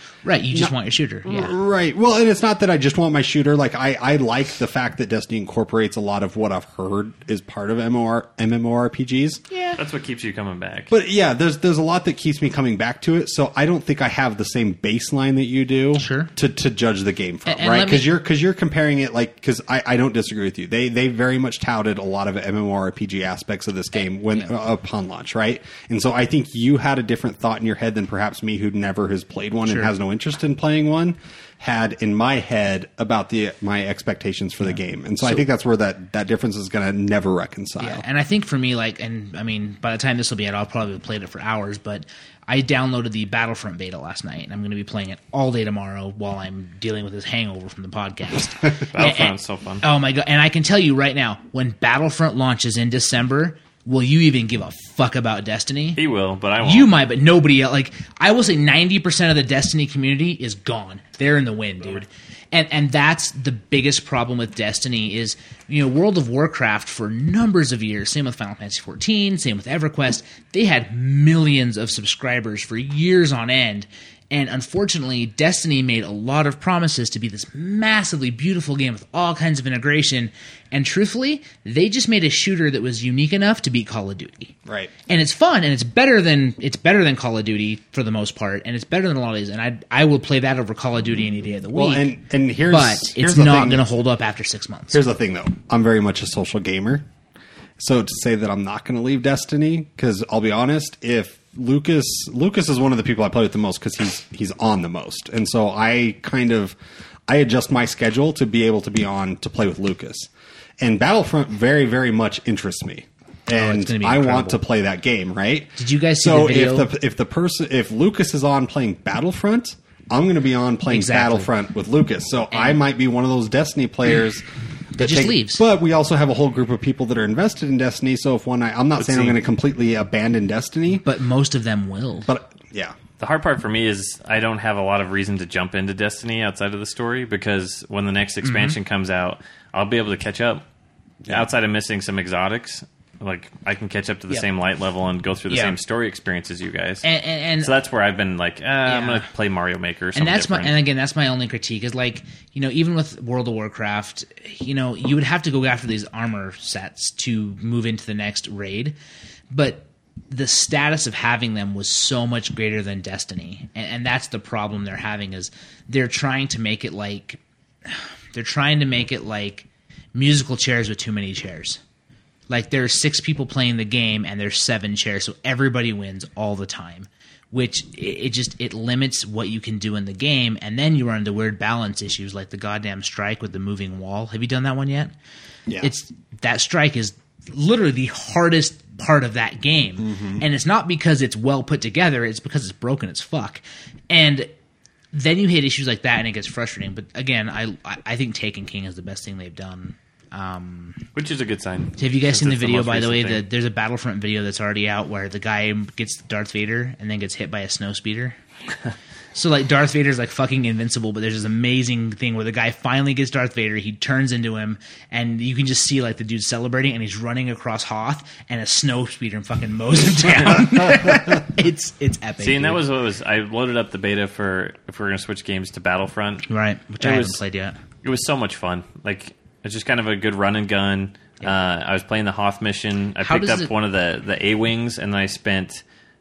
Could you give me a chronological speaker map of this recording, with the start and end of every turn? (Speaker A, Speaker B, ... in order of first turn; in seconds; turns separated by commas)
Speaker A: 0.2-1.5, Speaker B: 0.5-9.4, Speaker A: 9.5-9.8, Speaker C: 9.8-10.9, Speaker B: 10.9-38.0, Speaker A: 15.9-16.3, Speaker A: 17.4-18.1, Speaker A: 34.6-35.4, Speaker A: 37.8-56.0, Speaker C: 48.9-49.8, Speaker C: 56.0-56.9, Speaker A: 56.6-84.5, Speaker B: 84.7-84.9, Speaker A: 85.1-92.1, Speaker B: 91.7-93.9, Speaker A: 92.7-95.0, Speaker B: 94.9-97.0, Speaker B: 97.8-131.0, Speaker A: 113.5-114.6, Speaker A: 115.8-116.9, Speaker A: 120.9-121.5, Speaker A: 122.5-122.8, Speaker A: 125.0-125.6, Speaker C: 129.0-129.4, Speaker A: 131.0-132.3, Speaker B: 132.2-132.9, Speaker C: 133.2-140.6, Speaker A: 138.4-138.8, Speaker C: 141.3-147.1, Speaker A: 145.5-145.8, Speaker A: 147.0-147.7, Speaker C: 147.6-150.8, Speaker A: 148.8-149.2, Speaker A: 150.2-158.9, Speaker A: 159.5-171.8, Speaker A: 172.5-185.1, Speaker B: 185.7-185.9, Speaker A: 185.8-194.5, Speaker B: 190.0-190.5, Speaker A: 195.1-201.0, Speaker C: 201.1-203.4, Speaker A: 202.0-208.4, Speaker A: 209.3-222.8, Speaker C: 222.4-226.5, Speaker A: 226.5-227.8, Speaker C: 227.0-227.4, Speaker C: 228.0-235.8, Speaker A: 233.2-233.7